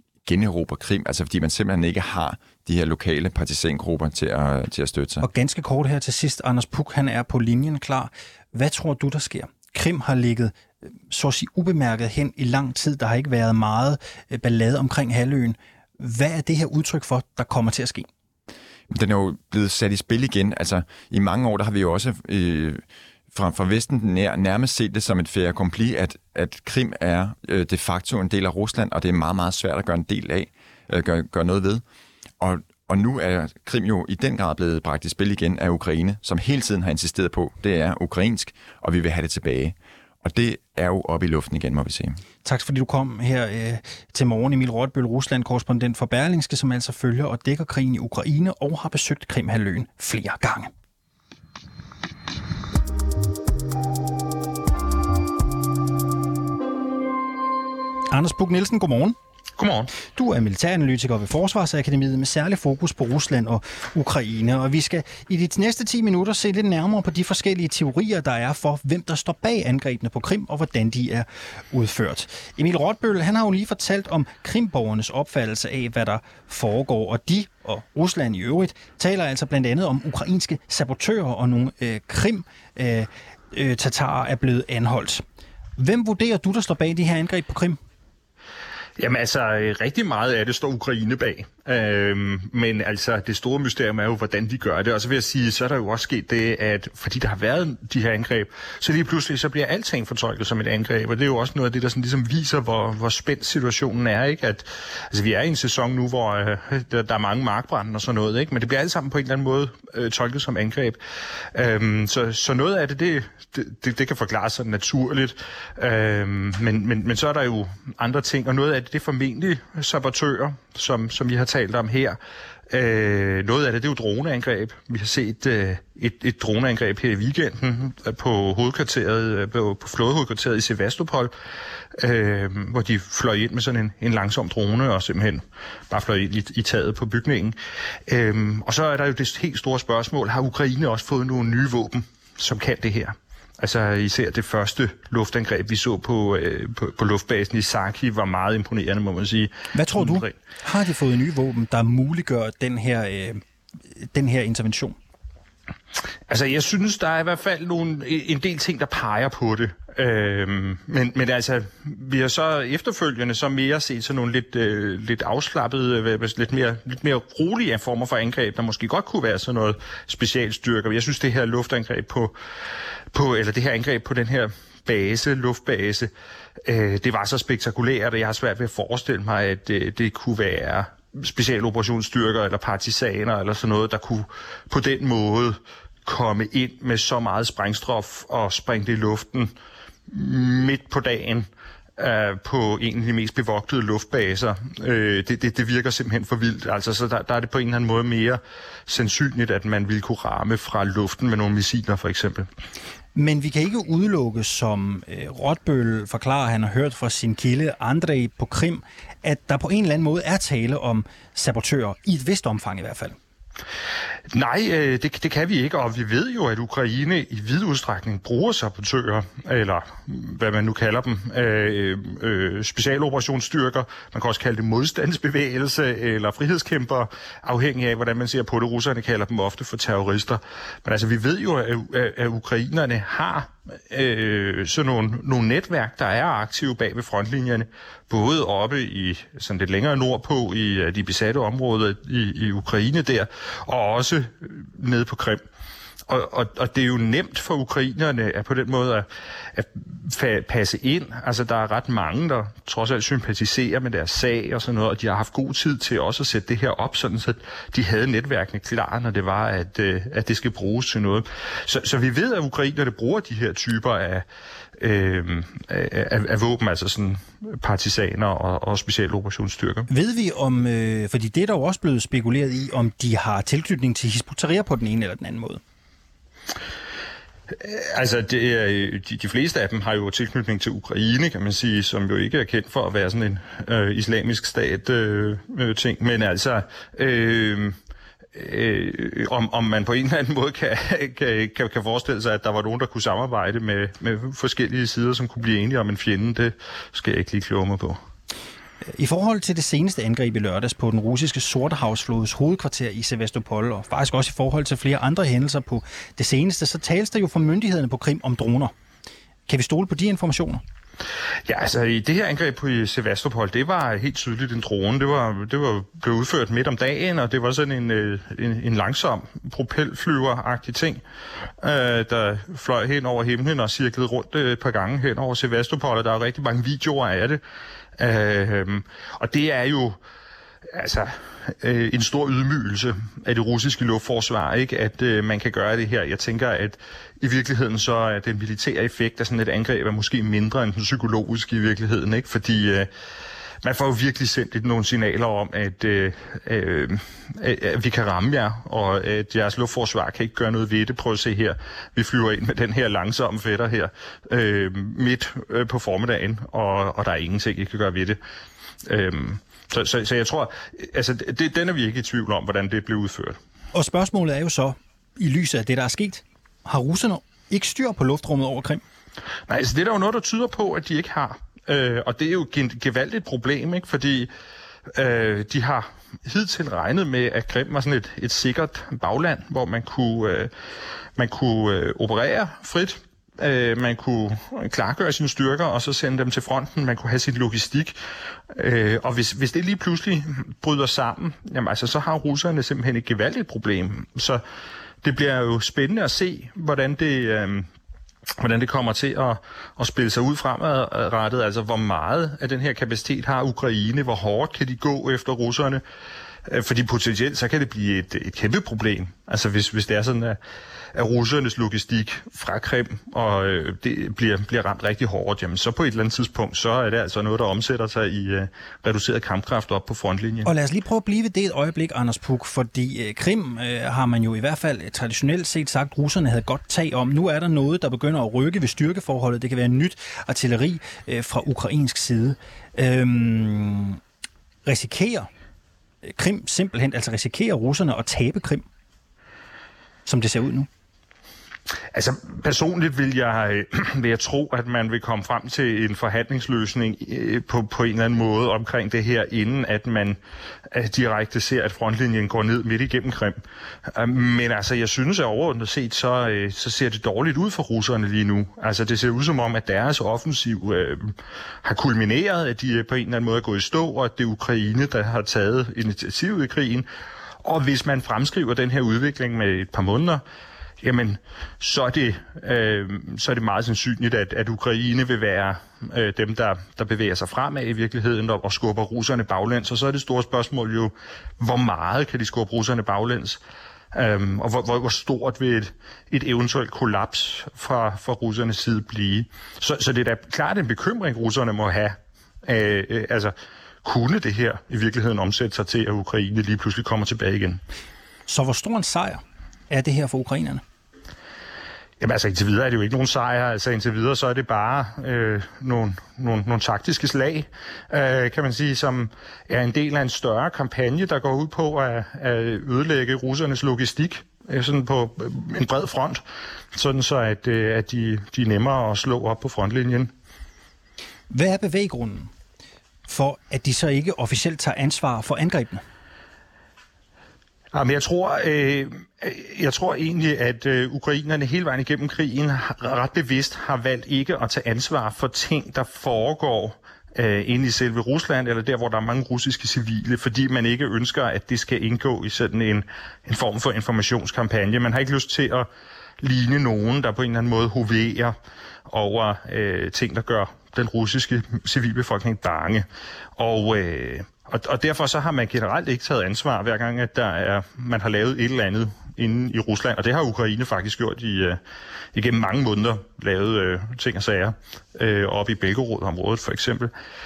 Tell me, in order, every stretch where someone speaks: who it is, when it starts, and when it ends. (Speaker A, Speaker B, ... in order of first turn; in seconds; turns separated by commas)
Speaker A: 0.2-5.3, Speaker B: 5.2-18.1, Speaker A: 18.9-31.8, Speaker A: 32.4-42.2, Speaker B: 42.4-50.7, Speaker B: 58.1-59.2, Speaker C: 59.6-59.9, Speaker B: 60.1-85.2, Speaker B: 85.8-87.8, Speaker C: 89.0-111.0, Speaker C: 111.5-122.2, Speaker C: 122.7-131.3, Speaker C: 131.9-150.3, Speaker B: 149.7-155.0, Speaker C: 156.3-172.3, Speaker C: 173.1-176.1, Speaker C: 176.6-189.5, Speaker C: 190.1-202.5, Speaker B: 203.2-213.2, Speaker C: 214.3-245.4, Speaker C: 246.1-264.3, Speaker C: 264.8-269.9, Speaker B: 269.9-275.6, Speaker C: 277.5-287.8, Speaker C: 288.3-298.0, Speaker B: 298.9-308.7, Speaker B: 309.5-310.6, Speaker C: 311.4-321.0, Speaker C: 321.6-327.4, Speaker C: 328.0-330.0, Speaker C: 330.7-342.9, Speaker C: 343.6-358.2, Speaker C: 358.8-363.4, Speaker B: 363.7-368.8, Speaker C: 369.5-374.3, Speaker C: 374.9-380.5, Speaker C: 381.2-388.0, Speaker C: 388.5-394.4, Speaker C: 395.0-397.7, Speaker C: 398.4-405.8, Speaker C: 406.4-410.4, Speaker C: 410.9-420.5, Speaker B: 420.4-434.0, Speaker B: 434.7-435.3, Speaker B: 436.0-438.7, Speaker B: 440.1-440.7, Speaker C: 441.9-450.2, Speaker C: 450.7-466.9, Speaker C: 467.4-470.2, Speaker C: 470.8-483.4, Speaker C: 483.9-497.6, Speaker B: 498.3-500.6, Speaker C: 502.0-516.2, Speaker C: 516.7-520.1, Speaker B: 521.3-522.3, Speaker B: 523.1-525.8, Speaker C: 527.7-545.7, Speaker C: 546.2-548.4, Speaker C: 548.9-561.6, Speaker C: 562.1-566.9